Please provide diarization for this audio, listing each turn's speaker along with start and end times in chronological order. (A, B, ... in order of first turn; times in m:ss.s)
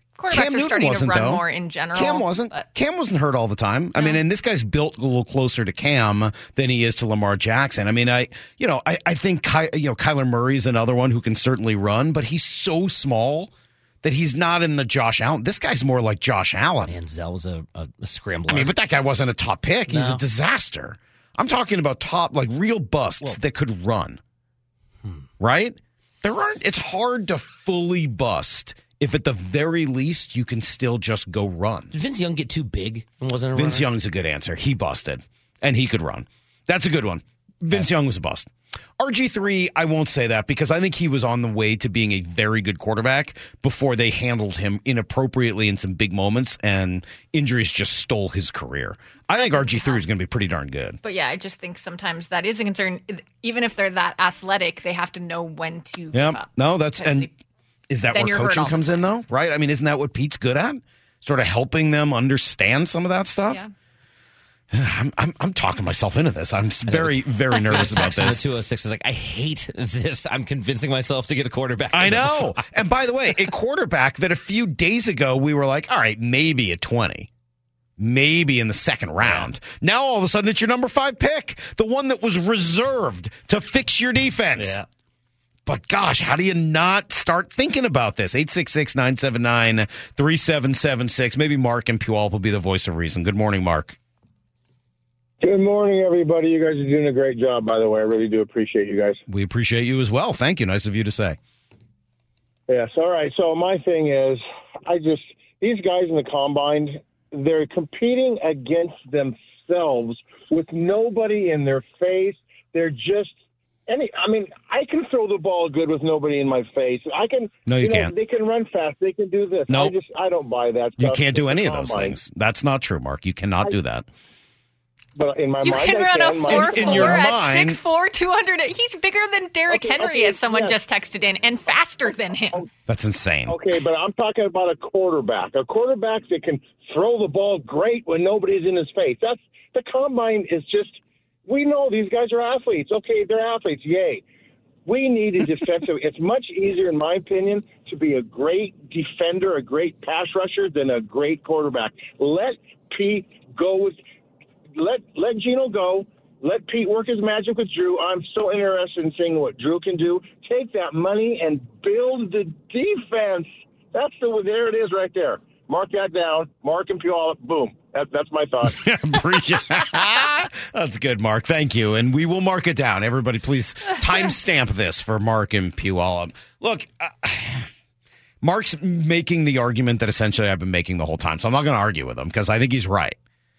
0:00.2-0:02.6 A
0:00.3-0:13.5 B
0:14.0-0:16.9 B
0:16.9-0:18.7 C
0:18.5-0:24.2 B
0:19.9-0:20.2 C
0:25.4-0:31.9 B
0:31.9-0:33.9 C
0:33.5-0:51.0 B
0:49.3-0:50.0 A
0:51.0-0:57.3 A
0:56.1-0:57.3 B
0:57.9-1:03.6 B
0:58.1-0:59.0 A
1:04.7-1:08.4 B
1:06.9-1:12.6 C
1:07.5-1:08.2 A
1:11.9-1:17.3 B
1:18.0-1:24.8 B
1:19.2-1:19.5 C
1:24.6-1:24.8 C
1:25.6-1:34.0 B
1:35.4-1:39.2 D
1:39.3-1:41.4 B
1:42.7-1:53.4 D
1:53.9-2:02.1 D
1:57.6-1:58.1 B
1:59.7-2:00.0 B
2:01.0-2:04.1 B
2:05.2-2:07.2 D
2:05.6-2:12.7 A
2:06.5-2:07.8 B
2:09.7-2:10.8 D
2:12.9-2:13.6 B
2:13.5-2:24.2 D
2:24.8-2:34.0 D
2:34.8-2:48.8 D
2:48.6-2:57.7 B
2:58.4-3:03.2 B